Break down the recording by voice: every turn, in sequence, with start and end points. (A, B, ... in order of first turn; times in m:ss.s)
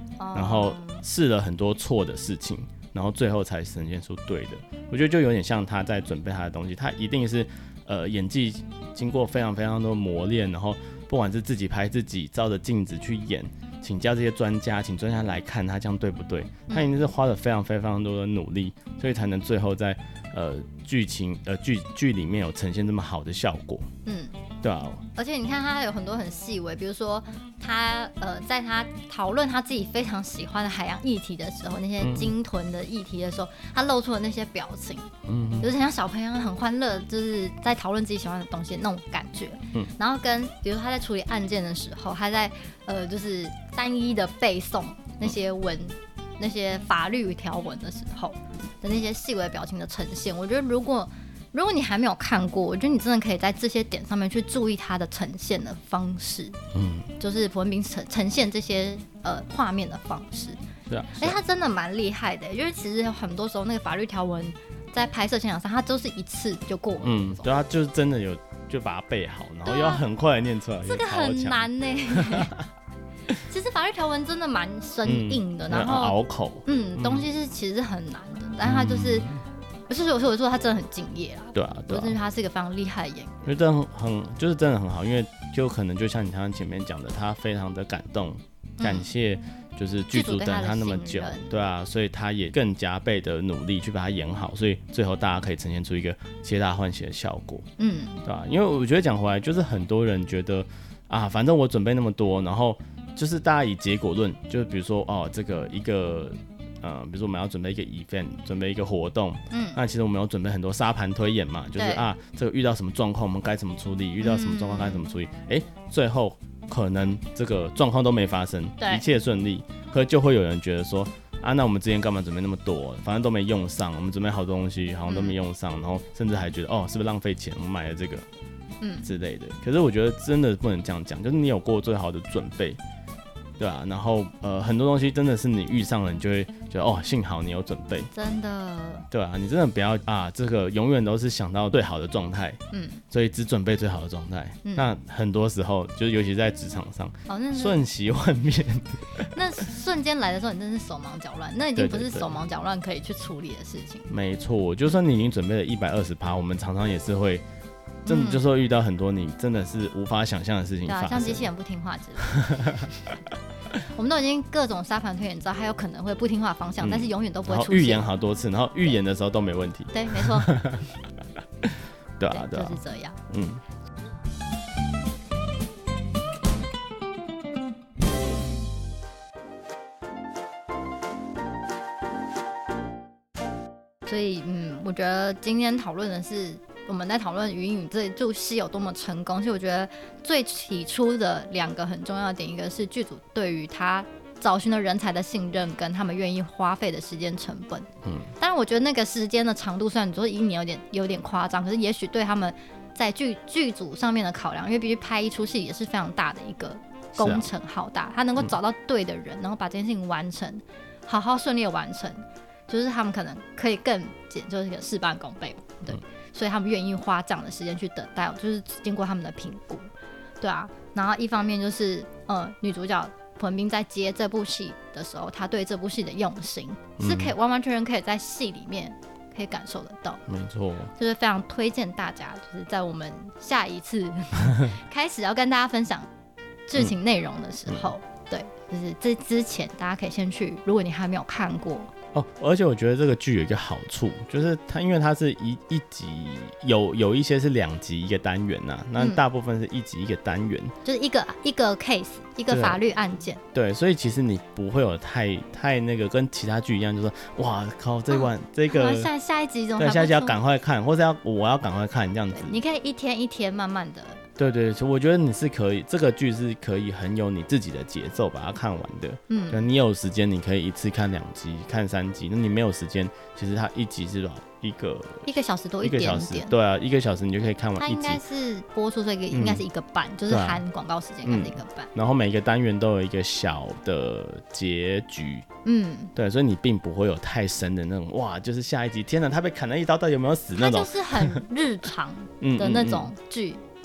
0:00.2-0:01.0 A
0:00.3-0:23.9 B
0:16.7-0:17.0 A
0:24.0-0:24.4 A
0:24.6-0:25.0 B
0:25.1-0:56.6 A
0:32.0-0:32.3 B
0:35.2-0:35.7 B
0:56.7-0:57.1 B
0:57.2-1:00.6 A
1:00.9-1:01.4 B
1:01.2-1:07.5 A
1:07.0-1:12.6 B
1:09.6-1:10.0 A
1:10.8-1:12.6 A
1:13.3-1:19.3 A
1:15.0-1:17.3 B
1:18.6-1:19.4 B
1:19.9-1:23.5 A
1:21.5-1:22.2 B
1:23.4-1:37.7 B
1:28.8-1:29.1 A
1:30.1-1:31.5 A
1:37.8-1:38.2 A
1:38.2-2:08.2 B
1:49.5-1:49.8 A
1:51.8-1:52.0 A
1:54.2-1:55.0 A
1:58.8-1:59.0 A
2:05.1-2:05.4 A
2:08.8-2:09.1 A
2:09.0-2:12.8 B
2:13.6-2:18.1 B
2:18.1-2:19.1 A
2:19.1-2:22.6 B
2:22.7-2:23.0 A
2:23.1-2:29.3 B
2:24.6-2:24.9 A
2:27.3-2:27.8 A
2:29.3-2:34.1 A
2:31.8-2:32.4 B
2:34.1-2:37.4 B
2:38.0-2:38.4 A
2:38.0-2:41.5 B
2:40.9-2:43.0 A
2:42.3-2:42.9 B
2:43.9-2:48.0 A
2:46.8-2:50.9 B
2:49.9-2:50.6 A
2:51.6-2:52.8 B
2:52.3-2:53.2 A
2:53.3-2:53.6 B
3:04.0-3:39.9 A
3:27.2-3:27.5 B
3:40.4-3:50.2 A
3:47.0-3:47.3 B
3:50.3-3:50.9 B
3:51.0-3:56.1 A
3:56.7-4:01.9 A
4:02.1-4:10.7 B
4:10.8-4:13.4 A
4:12.5-4:12.8 B
4:13.5-4:19.1 B
4:18.1-4:20.4 A
4:19.8-4:22.6 B
4:22.3-4:24.2 A
4:24.4-4:35.3 B
4:29.3-4:29.6 A
4:35.2-4:36.5 A
4:35.8-4:38.2 B
4:37.8-4:41.9 A
4:39.3-4:39.6 B
4:40.3-4:40.6 B
4:41.2-4:45.4 B
4:45.6-4:46.1 A
4:46.1-4:51.4 B
4:50.6-4:53.6 A
4:52.4-4:53.1 B